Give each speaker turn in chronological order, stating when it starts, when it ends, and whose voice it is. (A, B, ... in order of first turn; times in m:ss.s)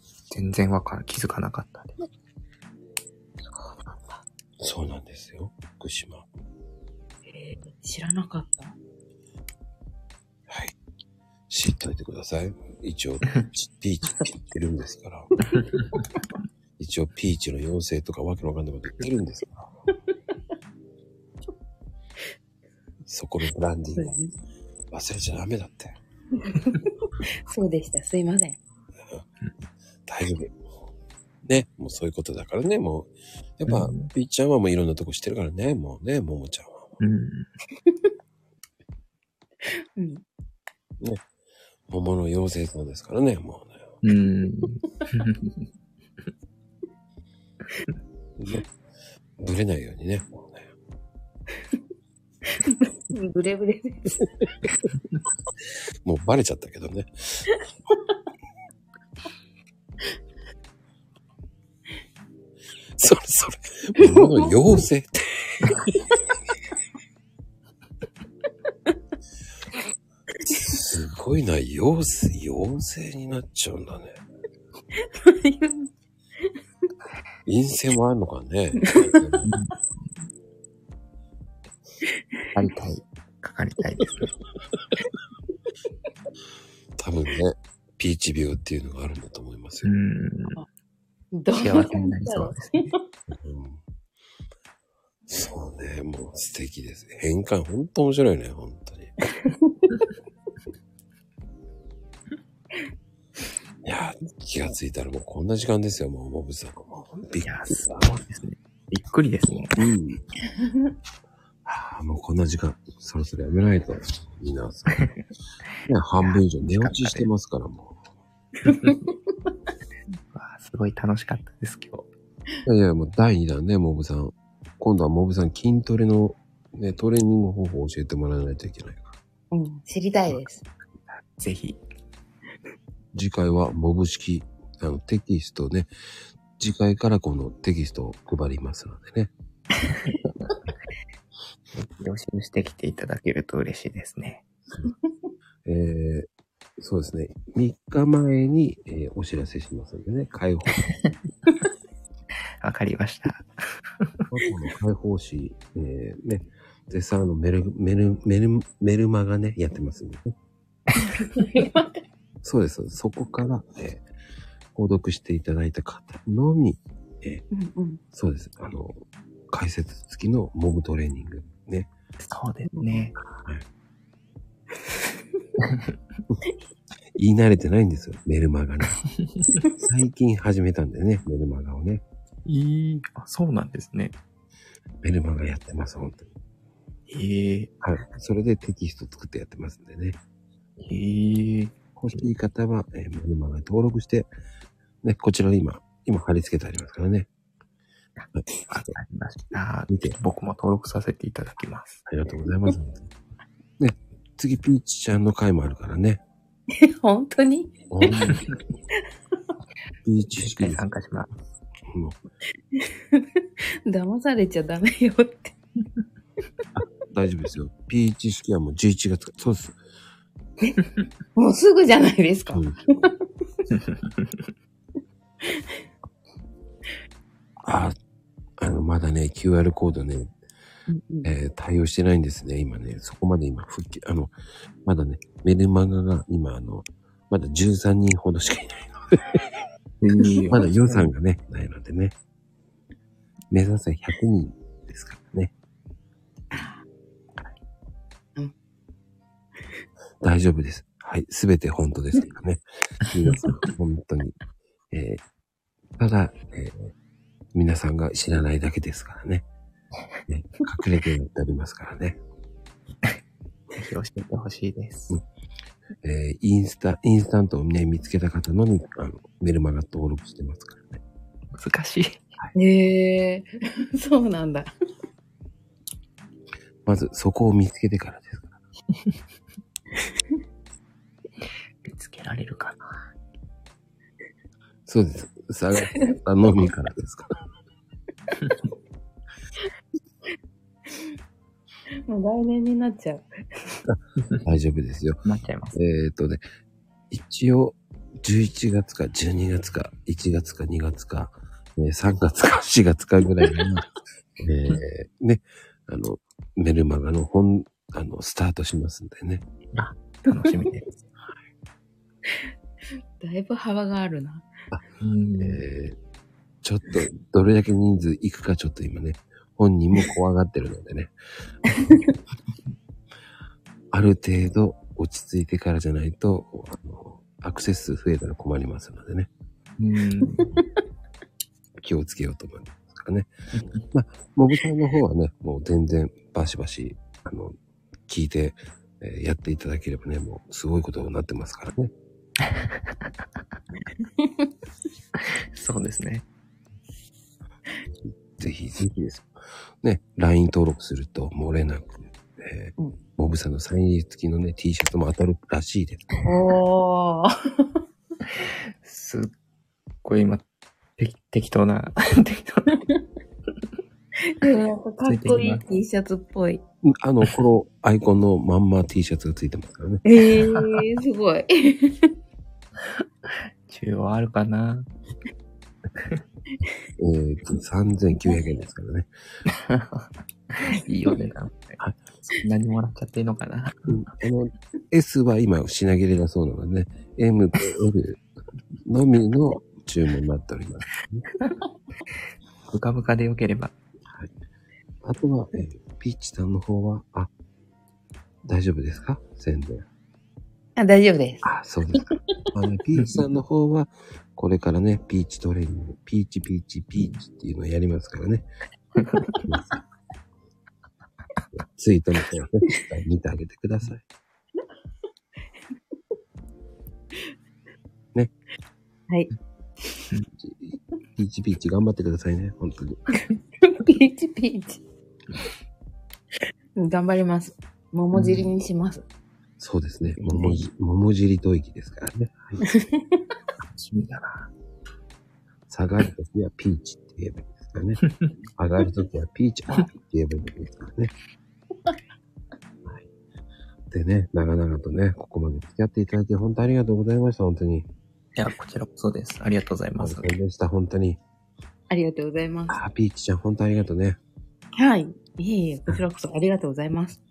0:00.3-0:02.0 A
0:03.5-0:04.2 B
0:04.6-0:06.3 C
0:07.3-0:08.8 B
0:10.5-0:10.7 C
0:11.5-0:15.3 C
0:14.1-0:14.3 B
0:15.5-0:16.0 A
0:16.8-0:19.7 C
0:23.0-0:24.2 C
0:24.0-0:24.3 B
0:24.9-0:26.0 C
0:26.4-0:28.6 B
0:30.1-0:30.6 C
0:31.4-0:36.9 C
0:33.7-0:34.1 A
0:37.0-0:37.5 A
0:39.6-0:40.2 B
0:41.9-0:43.8 C
0:44.0-0:45.6 A
0:48.4-0:48.6 C
0:49.4-0:50.7 C
0:52.6-0:54.3 B
0:56.0-0:57.5 C
1:03.0-1:05.8 C
1:04.0-1:04.6 B
1:10.5-1:14.2 C
1:15.0-1:15.9 B
1:17.4-1:19.5 C
1:18.9-1:19.2 B
1:19.4-1:19.7 A
1:22.5-1:24.3 A
1:27.0-1:29.9 C
1:29.8-1:30.6 A
1:31.3-1:32.6 B
1:31.6-1:32.9 A
1:33.3-1:33.8 C
1:35.3-1:39.1 C
1:39.4-1:40.0 B
1:43.8-1:48.1 C
1:47.4-1:49.8 A
1:49.8-1:50.2 C
1:50.6-1:50.8 B
1:51.6-1:55.0 C
1:55.9-1:58.0 C
1:56.2-1:57.3 A
1:58.7-1:59.1 B
2:00.3-2:02.1 A
2:02.7-2:09.1 C
2:09.5-2:10.6 B
2:11.4-2:11.8 A
2:13.1-2:15.9 C
2:16.6-2:19.3 C
2:21.8-2:24.4 A
2:24.9-2:25.2 B
2:25.6-2:26.3 C
2:26.8-2:30.9 C
2:32.6-2:33.5 A
2:34.3-2:40.3 C
2:41.3-2:42.0 B
2:42.4-2:44.0 C
2:44.8-2:47.4 C
2:47.5-2:48.0 B
2:48.1-2:51.9 C
2:52.3-2:53.1 A
2:52.7-2:53.1 B
2:53.2-2:53.6 C
2:57.2-2:59.0 C
2:59.8-3:02.0 C
3:02.5-3:04.1 A
3:05.0-3:06.3 C
3:07.1-3:07.7 A
3:07.8-3:10.2 C
3:10.9-3:12.3 A
3:12.0-3:14.3 C
3:15.0-3:17.3 C
3:18.2-3:22.0 A
3:18.3-3:18.9 C
3:19.9-3:20.2 C
3:22.1-3:23.1 C
3:23.8-3:26.2 C
3:26.7-3:28.3 B
3:27.9-3:28.5 C
3:30.0-3:30.8 C
3:30.4-3:31.3 A
3:31.9-3:32.2 C
3:32.7-3:35.5 B
3:36.8-3:39.8 C
3:41.4-3:43.2 B
3:42.5-3:42.8 C
3:43.8-3:44.3 A
3:47.6-3:48.0 C
3:48.6-3:50.3 C
3:50.9-3:51.3 B
3:51.2-3:54.3 C
3:54.8-3:59.4 C
4:00.0-4:01.1 A
4:00.5-4:02.1 C
4:03.5-4:05.5 C
4:10.2-4:14.4 C
4:14.9-4:15.2 C
4:16.0-4:16.9 C
4:17.5-4:19.4 C
4:20.3-4:22.2 C
4:23.8-4:25.1 A
4:26.0-4:31.0 C
4:31.6-4:32.2 A
4:32.5-4:34.7 B
4:36.9-4:38.5 C
4:41.9-4:42.8 A
4:44.9-4:47.3 C
4:45.9-4:46.2 B
4:52.1-4:53.8 B
4:53.9-4:56.4 C
4:55.2-4:55.8 A
4:57.1-5:03.9 C
5:04.4-5:09.4 C
5:09.7-5:10.9 A
5:13.2-5:14.5 B
5:15.0-5:15.6 A
5:15.4-5:16.0 C
5:16.6-5:21.1 C
5:21.7-5:22.1 B
5:23.9-5:29.3 C
5:29.8-5:30.5 A
5:31.8-5:33.3 C
5:33.5-5:33.8 A
5:33.9-5:37.6 C
5:38.1-5:41.9 C
5:42.5-5:42.8 A
5:45.5-5:46.2 A
5:47.9-5:49.3 C
5:49.8-5:56.1 C
5:56.2-5:57.7 B
5:58.8-5:59.3 A
6:00.0-6:00.4 A
6:01.0-6:02.8 A
6:04.3-6:06.6 B
6:05.0-6:05.8 A
6:06.8-6:10.0 C
6:10.0-6:12.1 B
6:10.4-6:10.8 A
6:13.7-6:14.9 A
6:17.0-6:19.1 C
6:19.7-6:20.0 A
6:20.6-6:21.8 A
6:22.4-6:23.8 A
6:23.9-6:28.2 C
6:28.8-6:31.2 C
6:32.7-6:33.7 A
6:35.0-6:37.3 C
6:38.4-6:39.8 C
6:40.8-6:42.2 B
6:41.4-6:48.5 C
6:49.0-6:49.4 A
6:49.4-6:49.8 C
6:51.6-6:54.0 C
7:00.4-7:03.0 C
7:03.6-7:04.8 B
7:06.8-7:09.0 B
7:08.1-7:08.5 A
7:09.6-7:12.6 C
7:10.2-7:10.6 A
7:12.6-7:13.2 B
7:13.6-7:14.5 A
7:15.7-7:18.0 C
7:18.6-7:21.1 C
7:23.9-7:27.9 C
7:28.4-7:30.4 A
7:30.0-7:31.2 C
7:31.9-7:32.8 B
7:32.7-7:34.2 C
7:34.8-7:37.2 B